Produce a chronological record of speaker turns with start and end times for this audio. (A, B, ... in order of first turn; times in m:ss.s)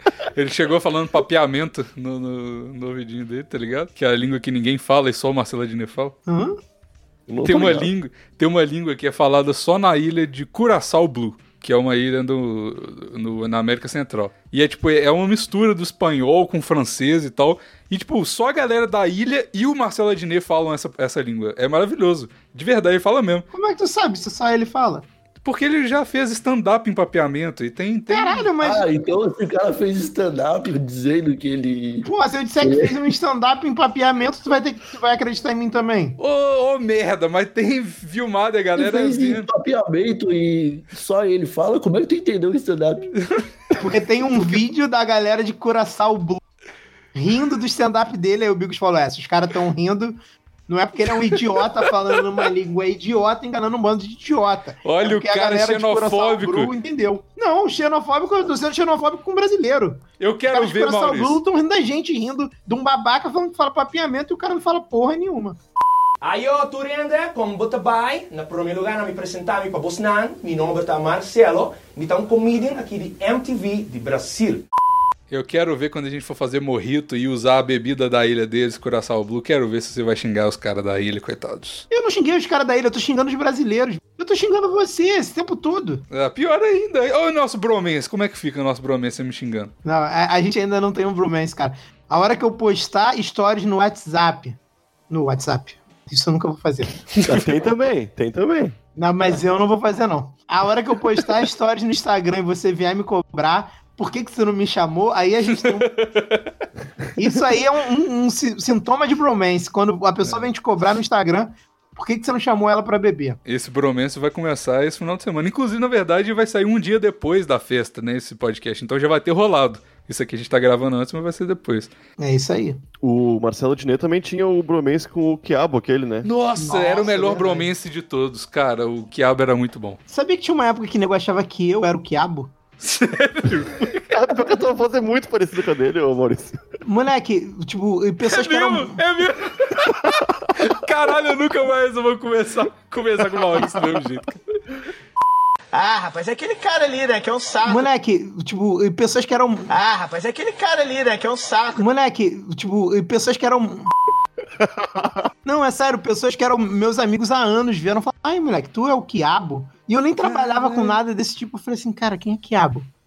0:00.3-0:06.1 A
0:06.3-0:06.6 B
0:07.3-0:07.9 C
0:07.4-0:23.5 A
0:23.5-0:25.0 B
0:25.4-0:28.5 A
0:28.1-0:28.8 B
0:28.6-0:32.1 D
0:32.0-0:36.2 B
0:32.6-0:33.1 D
0:36.2-0:39.5 A
0:38.8-0:43.1 D
0:43.8-0:46.4 B
0:47.1-0:50.2 B
0:50.7-1:00.0 B
0:54.8-0:56.7 A
1:00.2-1:01.4 A
1:00.5-1:05.6 B
1:06.2-1:14.6 E
1:15.3-1:21.8 A
1:21.9-1:26.0 B
1:26.1-1:29.7 A
1:29.8-1:34.6 B
1:35.1-1:36.9 B
1:37.2-1:38.8 C
1:39.0-1:45.9 B
1:45.6-1:46.5 A
1:47.2-1:53.4 B
1:53.4-2:01.9 A
2:02.2-2:02.8 B
2:03.0-2:06.3 C
2:06.2-2:10.0 A
2:06.6-2:07.7 B
2:10.1-2:12.5 B
2:12.8-2:14.1 A
2:14.1-2:16.6 C
2:16.8-2:19.0 B
2:18.2-2:24.4 A
2:25.7-2:27.9 F
2:27.7-2:29.7 B
2:29.7-2:31.8 F
2:31.8-2:33.9 B
2:34.6-2:35.3 C
2:35.4-2:42.9 B
2:40.2-2:41.0 A